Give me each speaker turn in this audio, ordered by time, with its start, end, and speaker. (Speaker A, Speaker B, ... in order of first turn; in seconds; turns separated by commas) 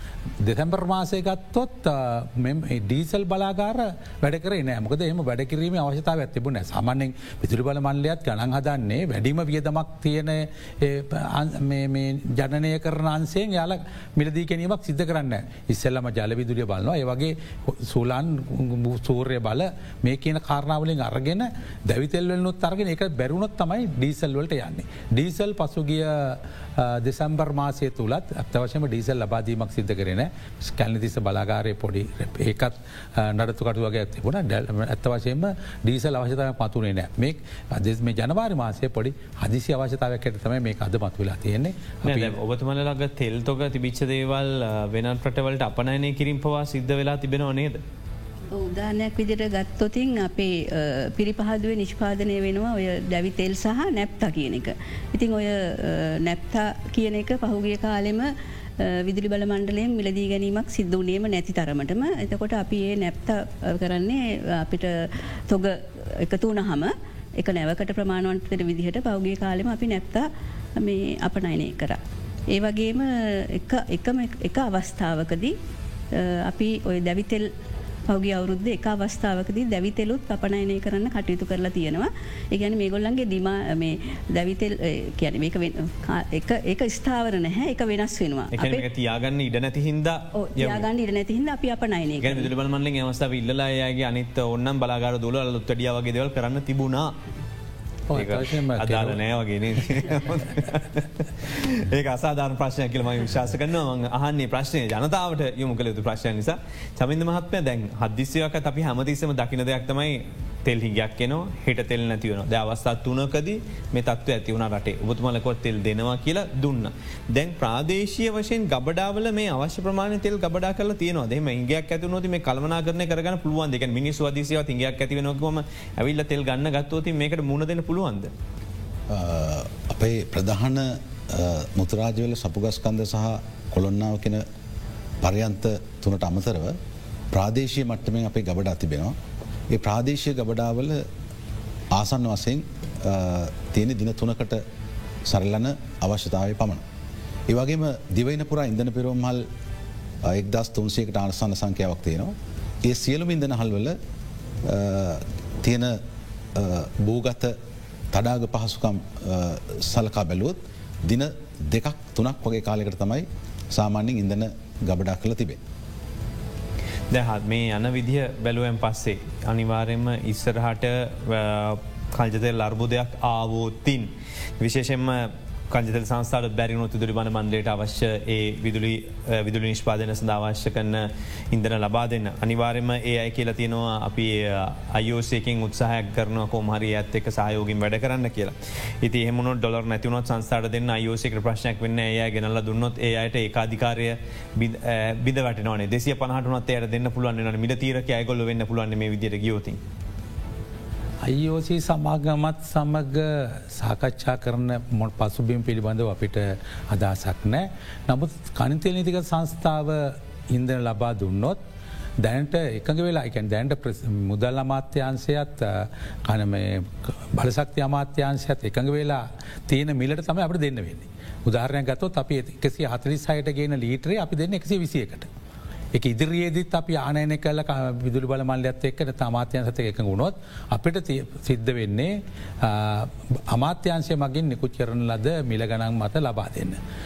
Speaker A: 0.4-42.4, Speaker B: 42.0-47.8, Speaker C: 48.5-72.0, Speaker C: 72.5-75.5, Speaker C: 76.1-77.5, Speaker C: 78.1-88.8, Speaker B: 88.5-90.9, Speaker C: 90.3-92.5, Speaker B: 92.2-97.2, Speaker A: 98.1-99.2, Speaker B: 98.1-128.3, Speaker D: 129.1-134.4, Speaker D: 135.2-136.8, Speaker D: 137.3-139.2, Speaker D: 139.7-141.1, Speaker D: 141.9-144.6, Speaker D: 145.2-146.8, Speaker D: 147.5-149.4, Speaker D: 150.2-154.0, Speaker D: 154.6-156.0, Speaker D: 156.5-157.6, Speaker D: 158.1-165.6, Speaker B: 167.1-199.8, Speaker A: 201.2-211.6, Speaker A: 212.2-225.3, Speaker A: 225.9-236.8